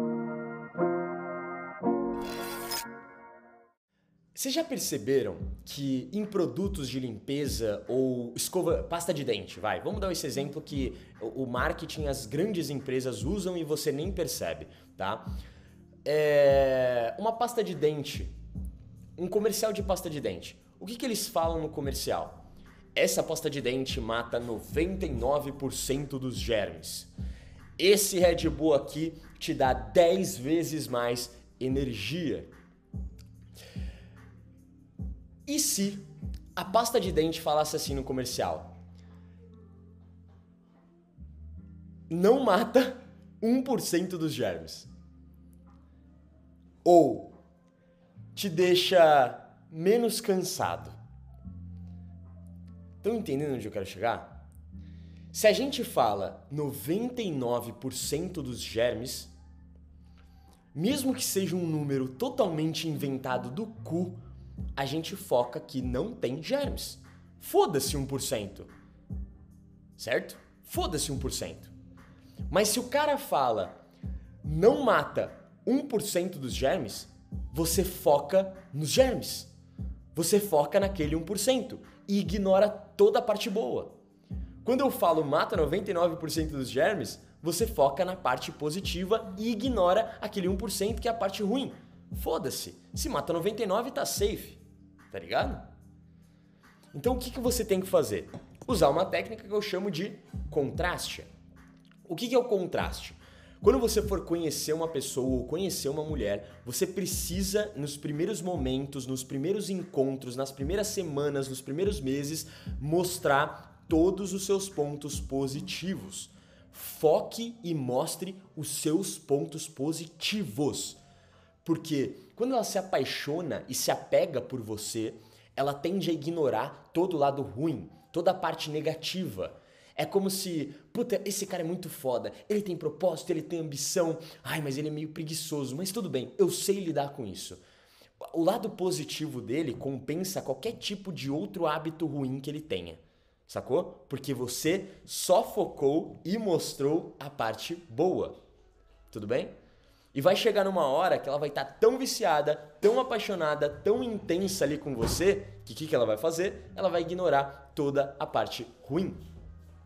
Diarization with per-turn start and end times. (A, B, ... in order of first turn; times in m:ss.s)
0:04.3-0:15.3 A
0:16.0-0:18.3 A
0:19.2-0:22.4 A
0:22.9-0:27.1 A
0:27.8-0:32.5 A
0:35.4-0:38.7 A
0:42.1-0:44.9 A
0:46.8-0:47.3 A
0:48.3-0:51.0 A
0:53.0-0:54.3 A
0:55.3-0:59.3 A
1:00.7-1:04.2 A
1:04.8-1:08.7 A
1:10.0-1:11.7 A
1:12.5-1:13.8 A
1:14.4-1:19.5 A
1:20.1-1:23.9 A
1:24.6-1:35.7 A
1:36.9-1:41.3 A
1:42.0-2:01.0 A
2:01.6-2:17.6 A
2:18.2-2:28.4 A
2:29.1-2:29.5 A
2:30.1-2:39.2 A